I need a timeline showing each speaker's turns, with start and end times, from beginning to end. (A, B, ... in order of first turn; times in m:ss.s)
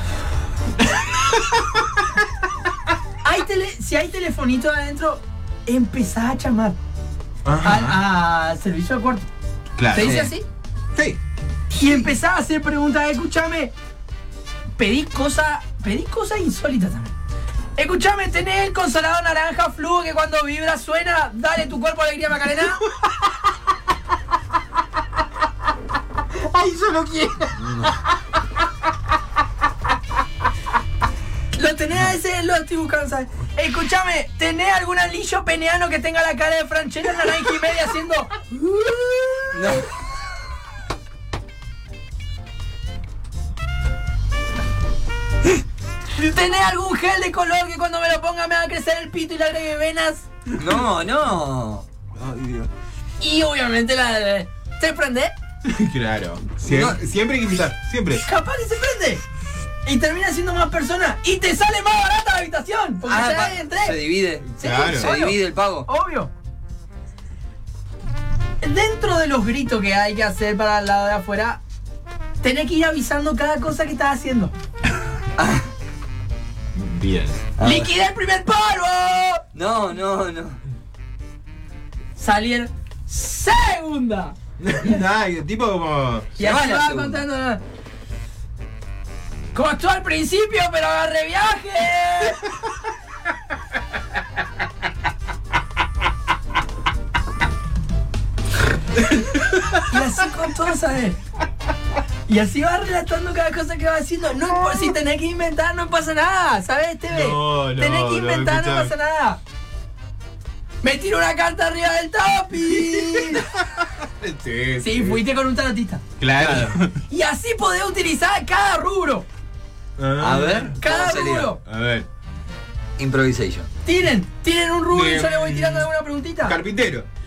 0:00.8-0:02.0 A
0:03.2-0:06.8 B
0:07.4-0:08.0 A
0:07.6-0:09.2 B
0:09.8-0:10.3 A
0:09.9-0:10.4 B
0:09.9-0:10.3 C
0:10.9-0:11.2 A
0:11.7-0:12.1 A
0:11.8-0:13.7 B
0:14.8-0:17.1 B
0:17.8-0:22.9 B
0:26.4-0:27.9 A
0:27.6-0:27.9 C
0:31.5-0:38.4 B
0:39.5-0:39.8 C
0:46.1-0:50.2 B
0:50.6-0:51.8 C
0:52.1-0:52.7 A
0:53.2-0:55.3 B
0:55.6-0:58.2 A
0:56.6-0:57.0 C
0:58.2-0:59.2 B
0:59.8-1:04.0 B
1:03.0-1:05.9 C
1:04.5-1:05.1 A
1:04.6-1:06.3 B
1:08.6-1:11.6 B
1:12.4-1:14.5 B
1:15.4-1:15.7 C
1:16.7-1:17.4 A
1:17.6-1:17.9 C
1:17.6-1:19.4 B
1:19.5-1:20.6 C
1:22.2-1:24.3 B
1:24.6-1:26.3 A
1:26.4-1:27.6 B
1:26.4-1:27.2 C
1:29.5-1:32.5 B
1:39.1-1:39.8 A
1:39.8-1:41.2 B
1:42.3-1:49.4 B
1:47.1-1:48.9 A
1:50.8-1:53.5 B
1:52.7-1:55.2 A
1:54.8-1:56.0 B
1:56.2-1:57.0 A
1:56.4-1:56.8 C
1:57.1-1:59.2 B
2:00.0-2:00.8 A
2:00.2-2:01.5 C
2:00.8-2:01.6 B
2:01.6-2:02.1 A
2:03.0-2:03.7 C
2:03.8-2:06.6 B
2:04.9-2:05.9 A
2:06.4-2:07.0 A